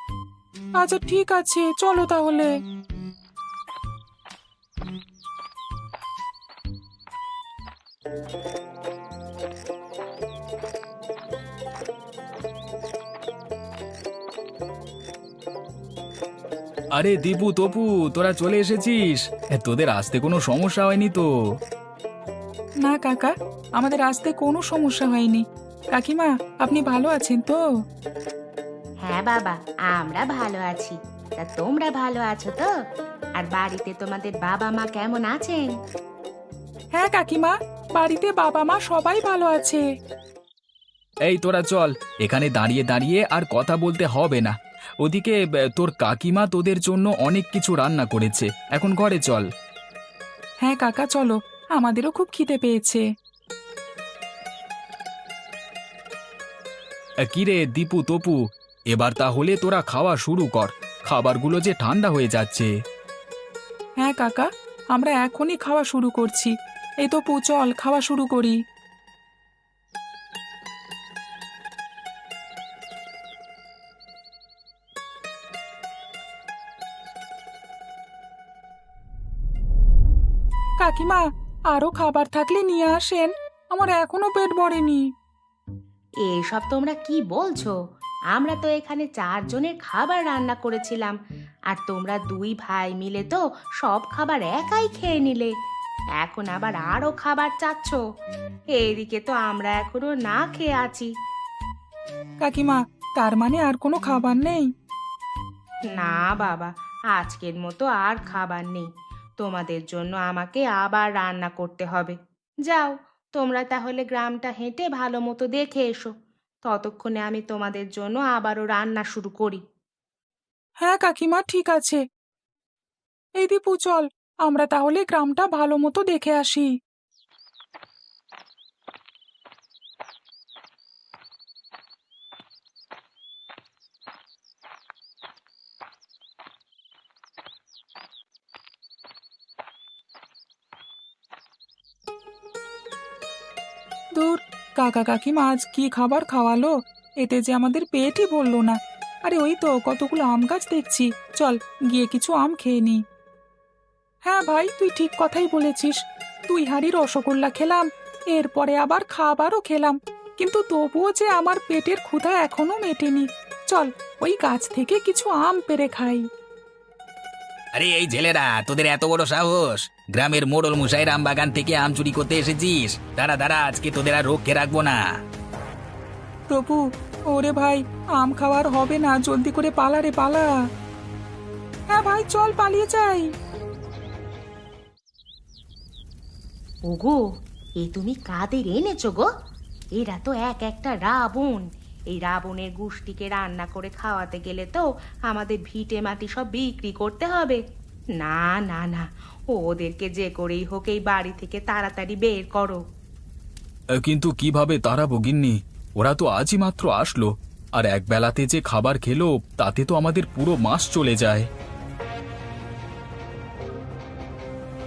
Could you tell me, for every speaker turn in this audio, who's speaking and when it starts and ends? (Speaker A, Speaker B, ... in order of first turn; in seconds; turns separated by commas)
Speaker A: 0.8-2.5, Speaker B: 16.9-21.3, Speaker A: 22.8-25.4, Speaker A: 25.9-27.6, Speaker C: 29.0-32.7, Speaker C: 33.4-35.7, Speaker A: 37.0-39.9, Speaker B: 41.3-49.5, Speaker A: 50.6-53.0, Speaker B: 57.2-58.4, Speaker B: 58.9-62.7, Speaker A: 64.0-68.6, Speaker A: 80.8-85.0, Speaker C: 86.3-87.8, Speaker C: 88.3-91.2, Speaker C: 91.7-95.5, Speaker C: 96.2-98.0, Speaker C: 98.8-101.1, Speaker A: 102.4-104.7, Speaker C: 105.9-108.9, Speaker C: 109.4-116.1, Speaker C: 116.7-119.6, Speaker A: 120.8-122.0, Speaker A: 123.4-126.7, Speaker A: 144.2-153.0, Speaker A: 154.2-166.2, Speaker D: 167.7-175.1, Speaker A: 176.5-180.5, Speaker A: 181.9-183.3, Speaker C: 186.9-187.2, Speaker C: 187.8-189.3, Speaker C: 190.0-197.6, Speaker C: 198.2-202.8, Speaker B: 204.0-211.5